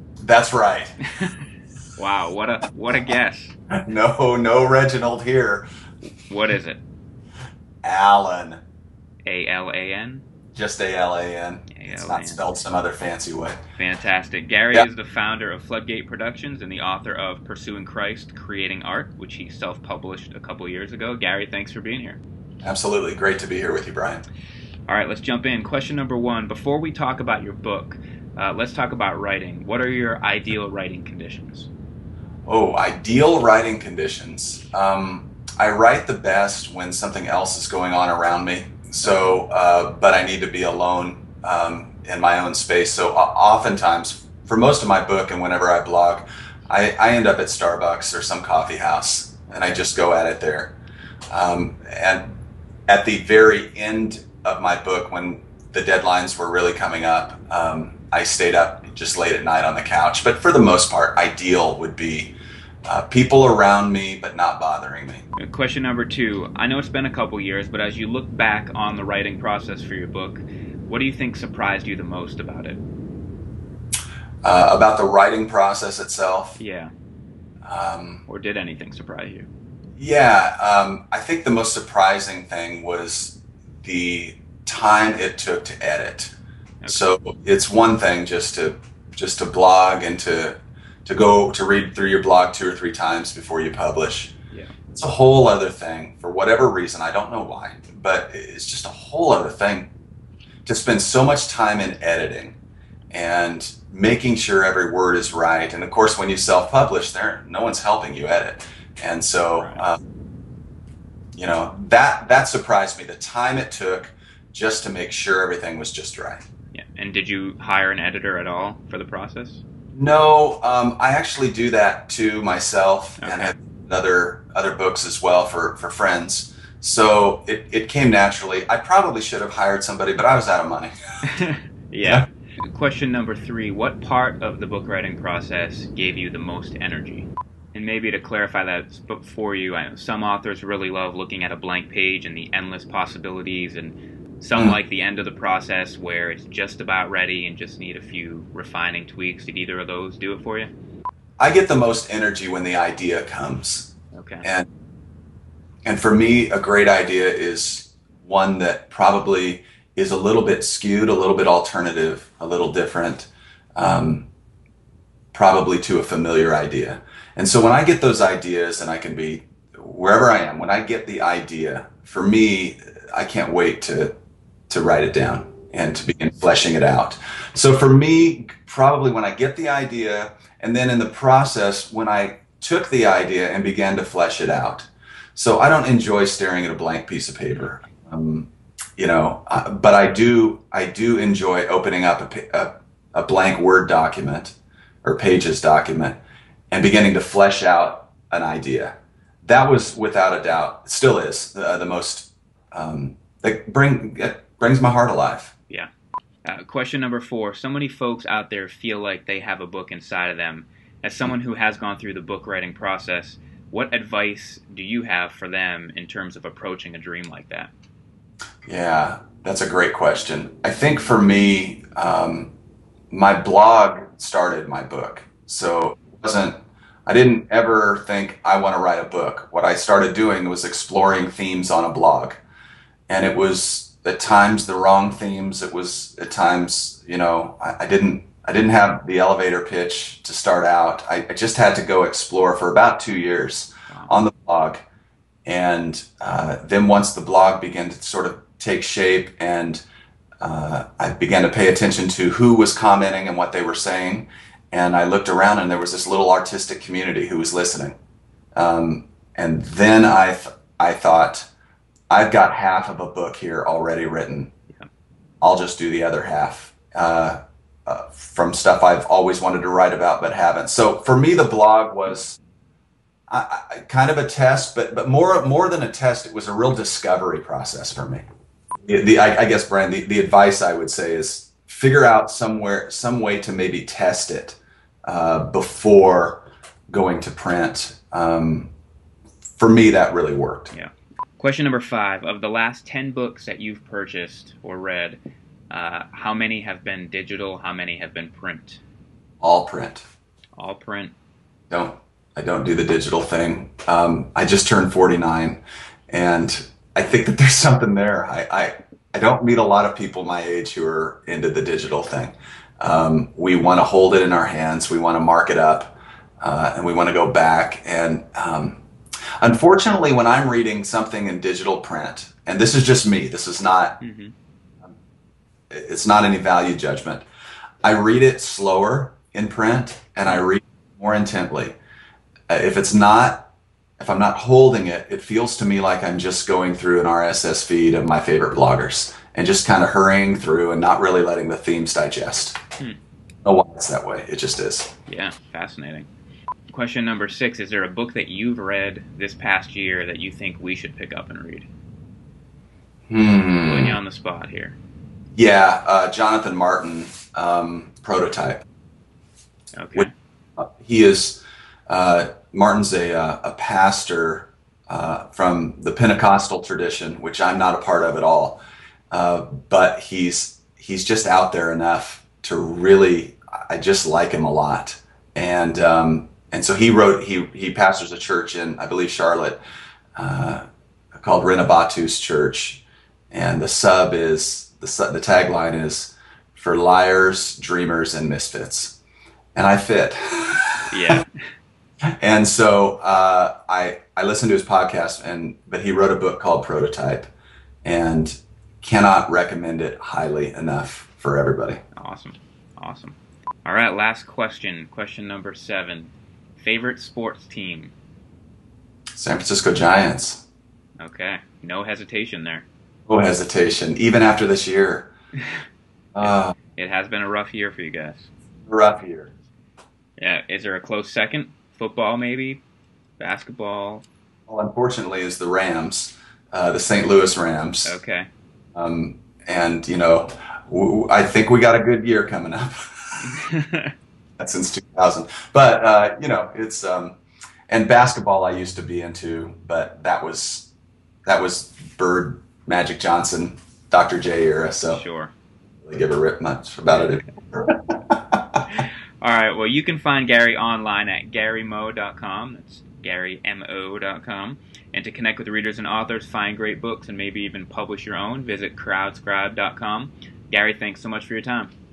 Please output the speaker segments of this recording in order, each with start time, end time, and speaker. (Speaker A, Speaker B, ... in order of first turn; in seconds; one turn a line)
Speaker A: 0.2-0.9
Speaker B: 2.0-3.5
Speaker A: 3.7-5.7
Speaker B: 6.3-6.8
Speaker A: 7.8-8.6
Speaker B: 9.3-10.2
Speaker A: 10.6-13.6
Speaker B: 11.7-12.4
Speaker B: 13.8-22.2
Speaker A: 22.6-24.2
Speaker B: 24.9-31.7
Speaker A: 32.5-50.8
Speaker A: 51.3-52.4
Speaker A: 52.9-62.3
Speaker A: 62.9-65.2
Speaker B: 65.4-72.8
Speaker A: 74.4-76.6
Speaker B: 76.6-76.9
Speaker A: 77.6-78.2
Speaker B: 78.3-79.5
Speaker A: 80.0-86.3
Speaker A: 86.9-94.3
Speaker A: 94.9-99.9
Speaker A: 100.7-102.6
Speaker A: 103.1-110.0
Speaker B: 109.6-109.8
Speaker A: 111.3-116.4
Speaker B: 116.7-119.6
Speaker A: 120.0-130.9
Speaker B: 123.2-123.5
Speaker B: 131.3-150.7
Speaker A: 151.4-153.9
Speaker B: 154.1-154.5
Speaker A: 155.8-164.3
Speaker A: 165.3-174.1
Speaker A: 174.7-196.2
Speaker A: 196.7-205.5
Speaker B: 206.4-217.7
Speaker A: 218.7-222.5
Speaker A: 223.1-226.6
Speaker A: 227.1-232.4
Speaker A: 233.1-244.8
Speaker A: 245.5-249.8
Speaker A: 250.4-257.9
Speaker A: 258.6-261.5
Speaker A: 262.1-264.5
Speaker A: 265.4-272.4
Speaker A: 273.3-278.2
Speaker A: 278.9-288.7
Speaker A: 289.6-290.7
Speaker B: 290.7-295.2
Speaker B: 295.7-298.8
Speaker A: 299.4-300.1
Speaker B: 300.6-301.1
Speaker A: 301.7-318.8
Speaker A: 319.4-324.0
Speaker B: 324.0-324.3
Speaker A: 325.7-327.2
Speaker A: 327.8-331.8
Speaker A: 332.5-333.5
Speaker A: 334.0-342.6
Speaker A: 343.4-344.9
Speaker B: 345.1-346.1
Speaker B: 346.7-351.7
Speaker A: 353.1-354.0
Speaker B: 353.6-354.8
Speaker A: 355.4-358.6
Speaker B: 359.8-360.1
Speaker A: 359.9-368.6
Speaker A: 369.1-379.6
Speaker A: 380.2-380.6
Speaker A: 381.2-389.0
Speaker A: 389.6-390.9
Speaker B: 390.9-391.3
Speaker A: 392.2-397.3
Speaker A: 397.9-401.8
Speaker B: 402.0-407.9
Speaker A: 409.2-410.4
Speaker B: 411.0-412.7
Speaker A: 413.1-415.1
Speaker A: 416.1-416.6
Speaker B: 416.2-418.3
Speaker A: 418.7-419.3
Speaker B: 420.2-422.6
Speaker B: 423.2-424.1
Speaker A: 424.5-428.0
Speaker B: 427.9-428.3
Speaker A: 428.8-433.2
Speaker B: 433.3-433.9
Speaker A: 434.4-437.2
Speaker A: 437.7-440.7
Speaker A: 441.3-445.0
Speaker B: 444.9-445.3
Speaker A: 445.8-448.4
Speaker B: 446.9-447.2
Speaker B: 448.7-461.7